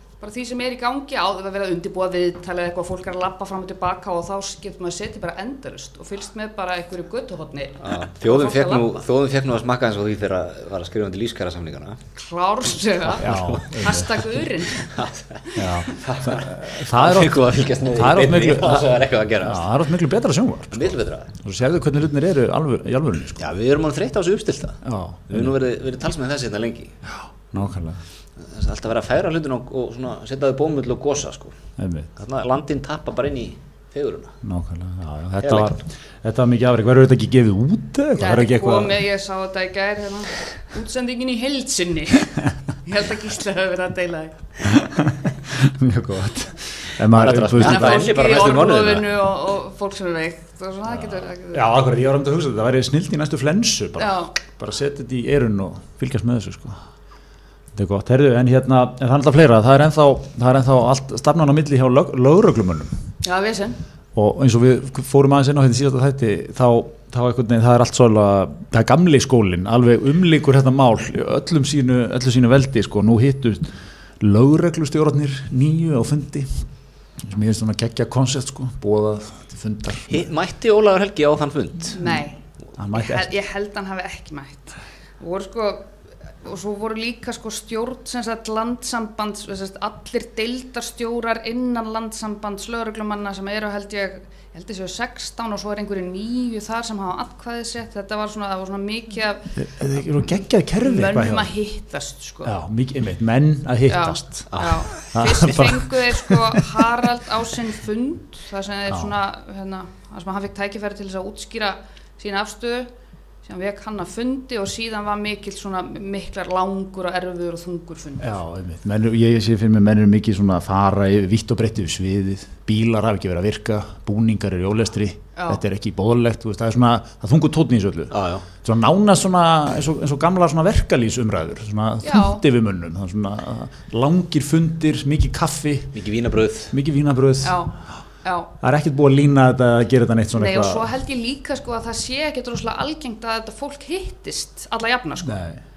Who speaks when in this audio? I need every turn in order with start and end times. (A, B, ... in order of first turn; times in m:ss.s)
0:00.2-0:08.9 A
0:07.8-0:12.0 B
0:12.1-0:14.9 A
0:13.1-0:14.1 B
0:13.2-0:14.2 C
0:14.7-0:19.7 B
0:15.5-0:16.0 A
0:15.6-0:23.4 C
0:20.7-0:21.3 B
0:23.4-0:27.0 B
0:24.8-0:25.5 C
0:27.2-0:28.0 C
0:28.4-0:31.6 B
0:31.8-0:32.1 C
0:32.2-0:34.4 B
0:34.4-0:39.0 C
0:35.4-0:35.8 B
0:38.2-0:44.4 A
0:44.8-0:48.0 C
0:47.1-0:49.1 B
0:47.6-0:51.6 A
0:51.5-0:56.8 C
0:54.0-0:54.3 A
0:57.7-1:02.9 C
1:03.2-1:03.8 A
1:04.1-1:16.7 C
1:17.2-1:20.2 C
1:20.1-1:22.0 B
1:21.9-1:22.4 A
1:22.8-1:23.3 C
1:22.9-1:39.5 A
1:39.6-1:41.5 C
1:40.8-1:42.6 A
1:42.4-1:46.9 C
1:43.9-1:52.9 A
1:44.5-1:45.4 B
1:53.4-1:58.4 A
1:58.2-2:16.0 C
2:05.4-2:05.6 A
2:08.1-2:08.4 B
2:12.0-2:12.4 A
2:15.9-2:16.7 B
2:16.7-2:17.8 C
2:17.4-2:18.5 A
2:18.6-2:20.8 C
2:20.3-2:25.4 A
2:25.2-2:25.6 C